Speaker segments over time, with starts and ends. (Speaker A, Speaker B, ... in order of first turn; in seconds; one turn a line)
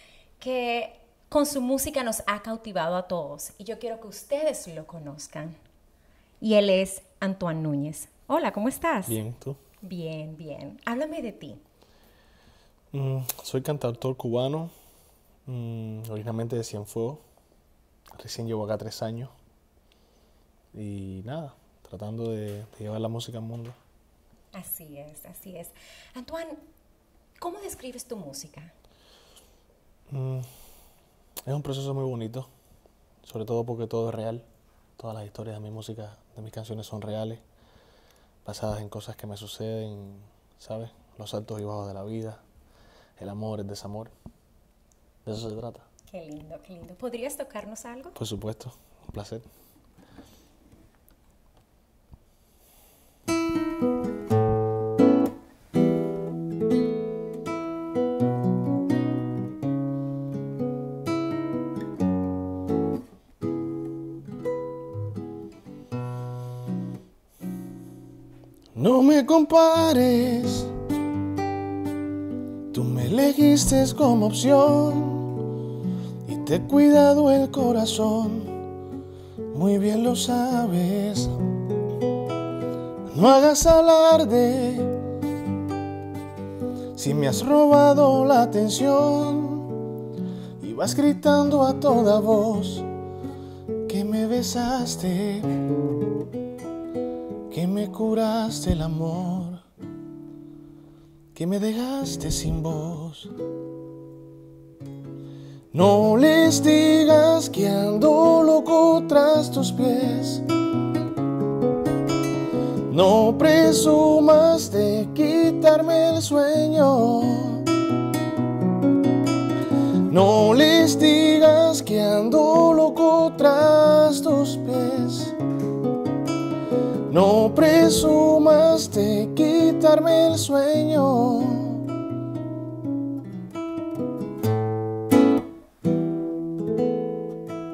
Speaker A: 0.4-5.5
Speaker A: 6.4-9.2
Speaker B: 9.1-9.6
Speaker A: 9.8-11.6
Speaker B: 12.9-14.7
Speaker B: 15.5-17.2
Speaker B: 18.2-19.3
Speaker B: 20.7-23.8
Speaker A: 24.5-26.6
Speaker A: 27.4-28.7
Speaker B: 30.1-30.5
Speaker B: 31.5-32.5
Speaker B: 33.2-34.4
Speaker B: 35.0-37.4
Speaker B: 38.5-42.4
Speaker B: 43.2-44.1
Speaker B: 45.3-45.9
Speaker A: 46.1-48.2
Speaker B: 48.2-49.5
Speaker B: 68.8-70.7
Speaker B: 72.7-75.4
Speaker B: 76.2-78.6
Speaker B: 79.5-81.4
Speaker B: 83.1-85.0
Speaker B: 87.0-89.7
Speaker B: 90.6-92.9
Speaker B: 93.9-95.5
Speaker B: 97.5-99.6
Speaker B: 101.3-103.3
Speaker B: 105.7-110.5
Speaker B: 112.9-117.7
Speaker B: 120.0-125.4
Speaker B: 127.1-131.9